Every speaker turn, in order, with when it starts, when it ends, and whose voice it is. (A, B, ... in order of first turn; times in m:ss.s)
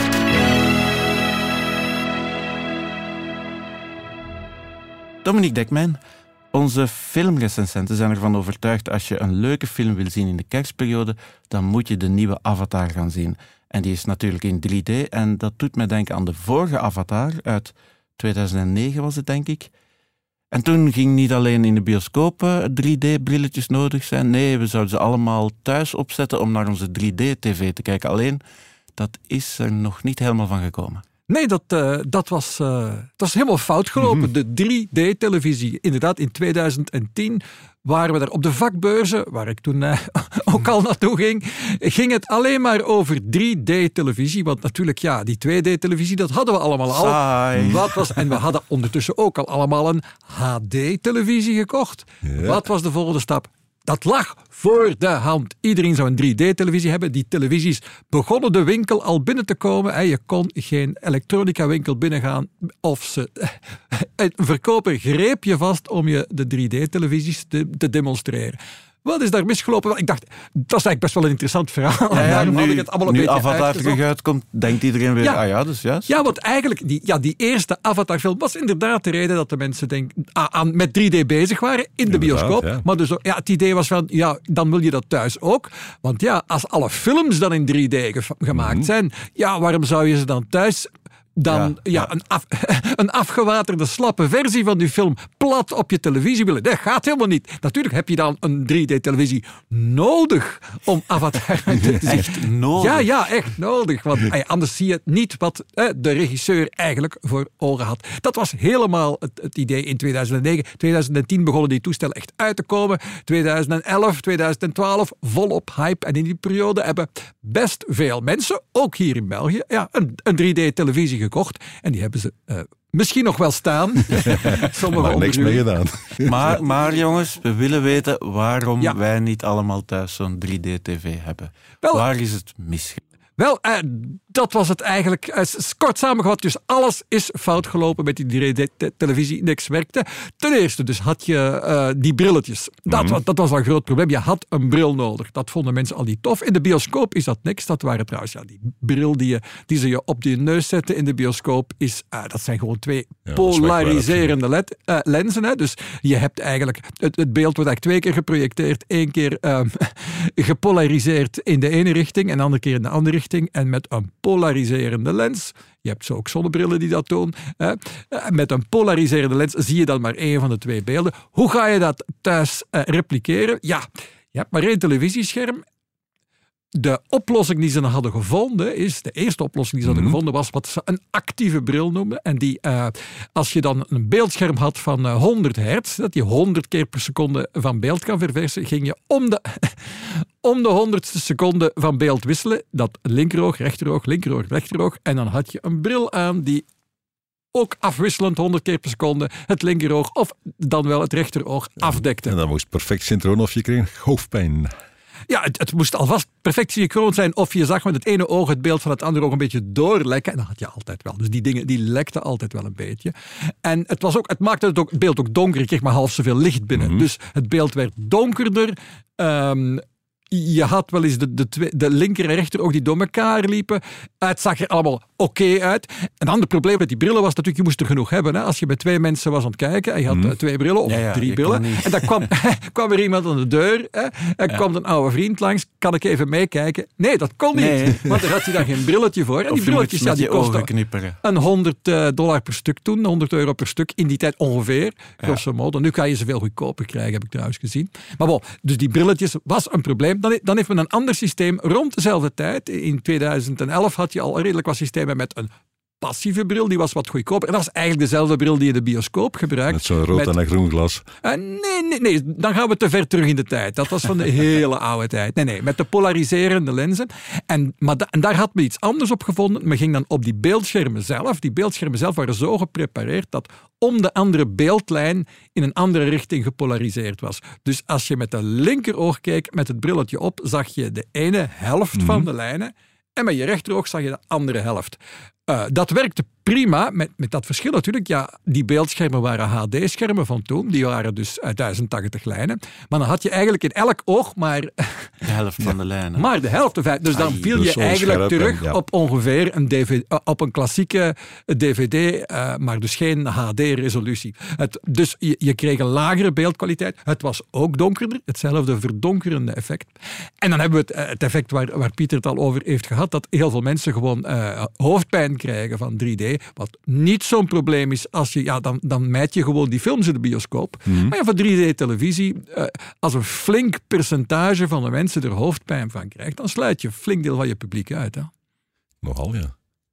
0:05.2-0:06.0 A
0:06.5-0:19.7 A
0:20.5-0:28.4 A
0:29.0-0:31.0 A
0:31.3-1:14.0 B
0:34.0-0:34.3 C
0:46.9-0:48.1 A
0:52.2-0:52.6 C
1:12.1-1:16.1 A
1:16.1-2:05.7 B
1:22.1-1:22.8 C
1:28.5-1:28.9 C
1:31.5-1:32.1 A
1:42.0-1:43.1 A
2:04.1-2:06.6 C
2:06.2-2:13.0 A
2:13.4-2:55.6 B
2:22.9-2:23.2 C
2:33.3-2:34.3 C
2:56.8-3:16.6 B
2:59.8-3:00.2 C
3:17.5-3:22.3 B
3:21.8-3:24.7 C
3:25.3-4:00.7 B
3:36.7-3:37.1 C
3:50.1-3:50.3 C
3:50.8-3:52.3 A
3:57.5-3:58.2 A
3:59.5-4:01.2 A
4:01.2-4:15.5 B
4:16.0-4:20.3 B
4:19.7-4:21.0 C
4:21.2-4:55.1 B
4:41.9-4:42.3 C
4:55.2-4:56.3 A
4:56.2-5:28.3 B
4:57.1-4:57.6 A
4:57.5-4:58.8 C
5:20.9-5:21.1 C
5:29.0-5:29.5 C